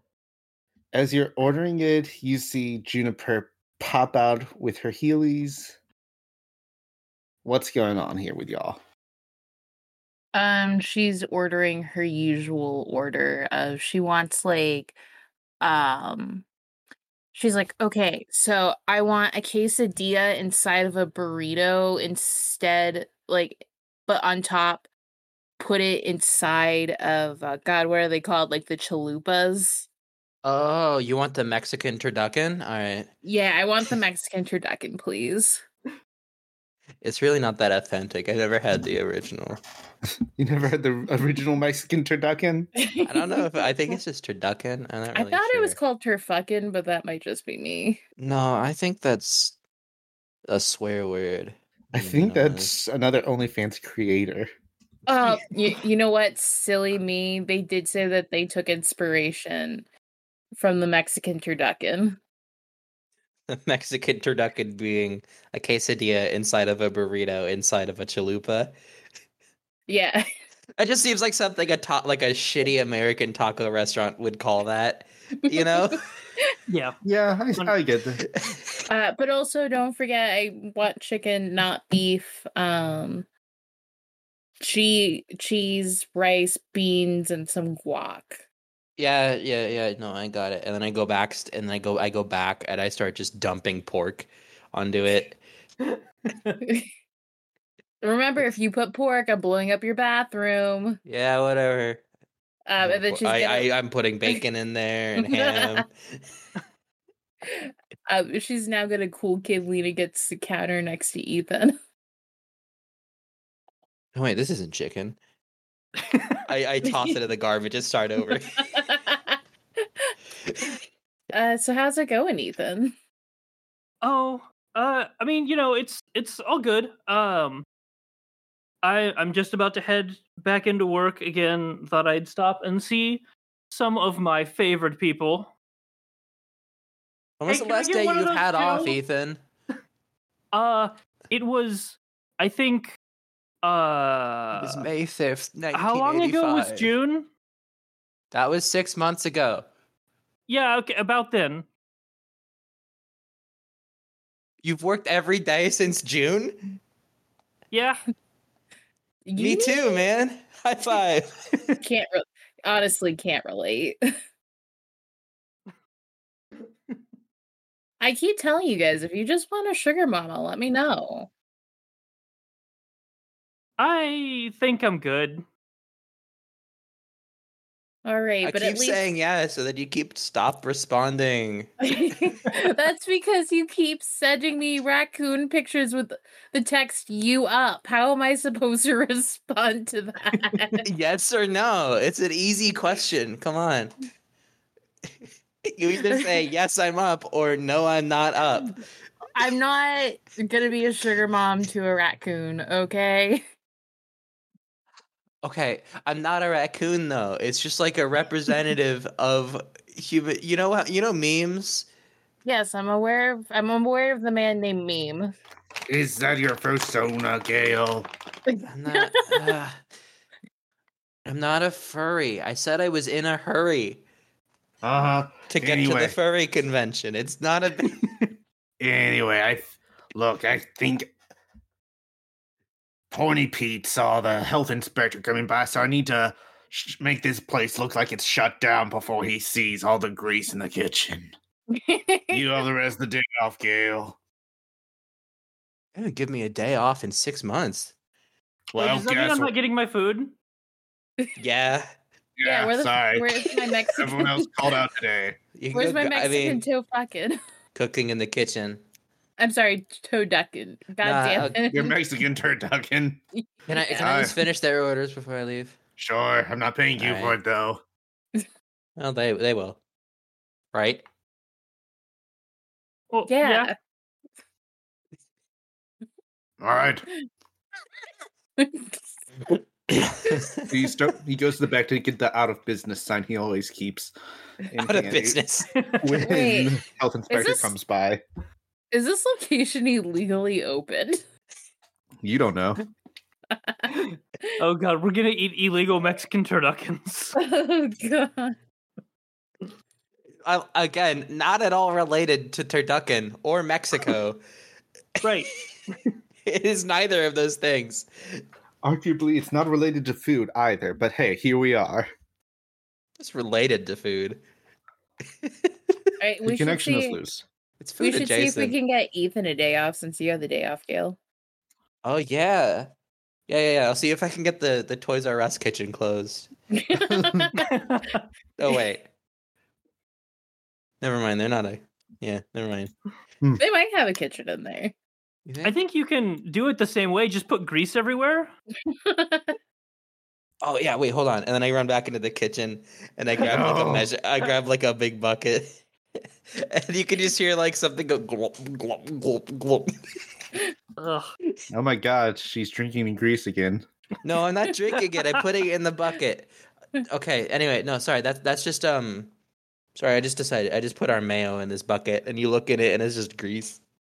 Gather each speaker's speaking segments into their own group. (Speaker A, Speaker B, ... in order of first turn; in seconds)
Speaker A: 0.9-5.8, 7.4-8.8, 40.4-42.7, 51.9-54.5, 77.0-78.2, 215.9-218.1, 224.8-226.1, 228.8-231.1, 233.1-241.3, 242.3-244.2, 248.7-249.5, 252.4-255.4, 261.6-263.2, 264.0-264.4, 266.0-267.8, 276.6-277.1, 280.6-284.1, 284.7-285.4, 286.0-288.2, 292.2-292.8, 308.8-312.1, 316.4-317.4, 327.0-327.5, 343.4-344.1, 351.7-353.8
Speaker B: 10.3-15.0, 15.6-16.4, 17.3-24.9, 25.6-29.9, 33.2-35.6, 42.8-44.0, 45.1-48.0, 55.1-59.9, 60.5-62.2, 69.9-70.2, 75.5-76.0, 78.9-83.2, 84.6-88.4, 96.6-96.9, 98.0-101.0, 102.7-103.7, 105.2-105.8, 107.4-111.8, 116.8-117.1, 118.7-119.8, 121.3-122.9, 159.2-160.0, 161.8-164.0, 168.0-171.3, 178.0-179.1, 181.8-190.8, 199.3-203.4, 212.4-215.3, 218.5-219.4, 241.7-242.6, 252.4-254.7, 255.7-257.4, 259.4-262.0, 263.4-264.2, 273.3-273.7, 278.6-279.0, 286.2-286.7, 287.3-287.7, 288.9-291.2, 293.5-293.9, 297.4-298.6, 316.2-317.2, 318.0-321.2, 326.7-327.8, 333.6-334.9, 338.9-339.6
Speaker C: 30.4-33.1, 37.0-39.6, 43.0-45.8, 48.2-49.6, 50.5-52.7, 63.5-68.7, 70.8-76.0, 78.3-78.8, 89.0-95.4, 101.0-102.0, 102.8-105.9, 114.1-115.2, 116.5-118.7, 137.4-139.4, 144.6-146.9, 148.3-149.7, 154.6-156.8, 159.4-161.6, 178.4-181.7, 190.8-193.9, 195.6-198.8, 205.4-211.9, 218.7-219.8, 221.2-224.0, 225.5-228.2, 245.9-247.9, 251.4-251.9, 255.6-256.6, 257.7-258.8, 261.0-261.6, 263.7-265.8, 267.0-267.4, 269.0-269.8, 270.7-271.0, 279.9-280.8, 284.8-285.7, 300.4-304.4, 306.4-308.4, 313.2-314.4, 315.4-315.9, 317.8-318.8, 322.0-322.9, 323.5-326.5, 328.6-329.1, 331.0-332.9, 335.4-335.7, 340.6-345.8, 346.5-349.9, 354.2-359.3, 359.9-363.8
Speaker D: 76.7-76.9, 95.8-96.6, 116.0-116.4, 124.0-127.7, 128.8-135.5, 137.5-139.0, 140.5-143.0, 143.6-144.8, 145.7-147.3, 150.5-151.7, 157.7-158.0, 173.8-175.4, 248.8-250.3, 273.1-273.7, 293.9-297.3, 305.2-306.1, 327.5-328.2, 335.6-338.5, 351.0-351.3